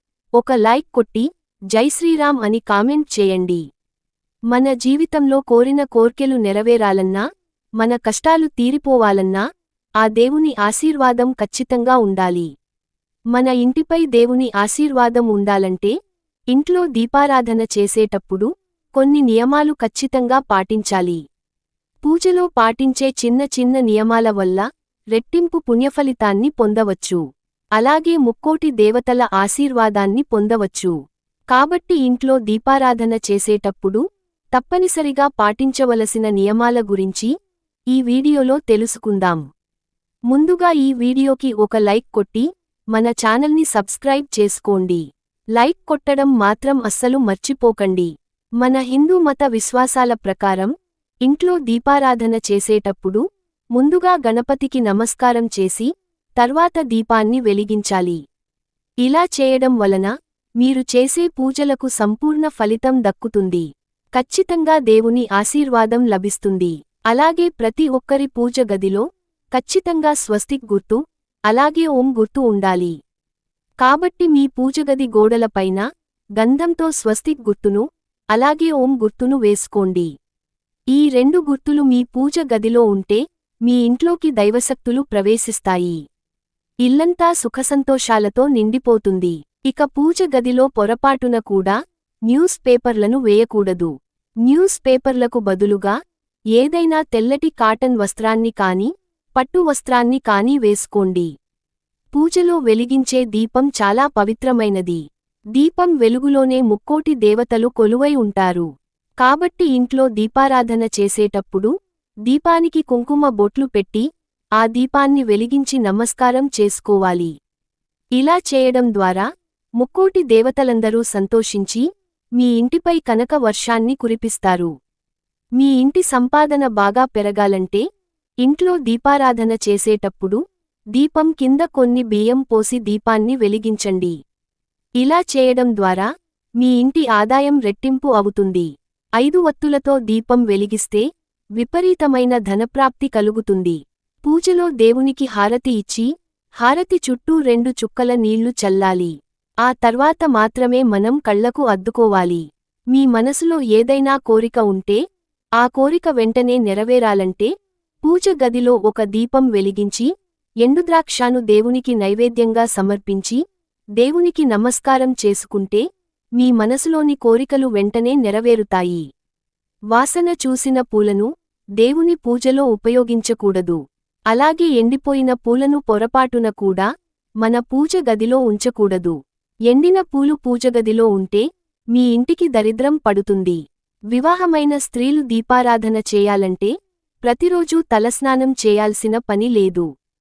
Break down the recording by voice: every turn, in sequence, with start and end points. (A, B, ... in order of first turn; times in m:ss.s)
0:00.4-0:03.6 A
0:04.5-0:07.2 A
0:07.8-0:09.4 A
0:10.0-0:12.5 A
0:13.3-0:15.9 A
0:16.5-0:21.2 A
0:22.0-0:27.2 A
0:27.8-0:31.0 A
0:31.5-0:34.0 A
0:34.6-0:37.3 A
0:37.9-0:39.4 A
0:40.3-0:45.0 A
0:45.6-0:50.7 A
0:51.3-0:53.2 A
0:53.8-0:58.2 A
0:59.0-1:13.0 A
1:13.8-1:15.8 A
1:16.4-1:20.1 A
1:20.9-1:26.0 A
1:26.8-1:31.8 A
1:32.3-1:33.9 A
1:34.5-1:36.0 A
1:36.6-1:41.3 A
1:42.1-1:45.0 A
1:45.6-1:48.7 A
1:49.2-1:51.7 A
1:52.3-1:54.1 A
1:54.6-1:57.3 A
1:58.2-1:59.3 A
1:59.8-2:01.8 A
2:02.4-2:04.7 A
2:05.6-2:07.8 A
2:08.4-2:10.4 A
2:11.0-2:14.2 A
2:15.0-2:16.1 A
2:16.6-2:21.1 A
2:21.6-2:26.1 A
2:26.6-2:35.0 A
2:35.6-2:37.5 A
2:38.0-2:40.1 A
2:40.6-2:43.4 A
2:44.0-2:45.8 A
2:46.4-2:49.1 A
2:49.9-2:51.3 A
2:51.8-2:53.8 A
2:54.3-2:56.9 A
2:57.4-2:59.2 A
2:59.7-3:03.6 A
3:04.1-3:06.7 A
3:07.2-3:09.9 A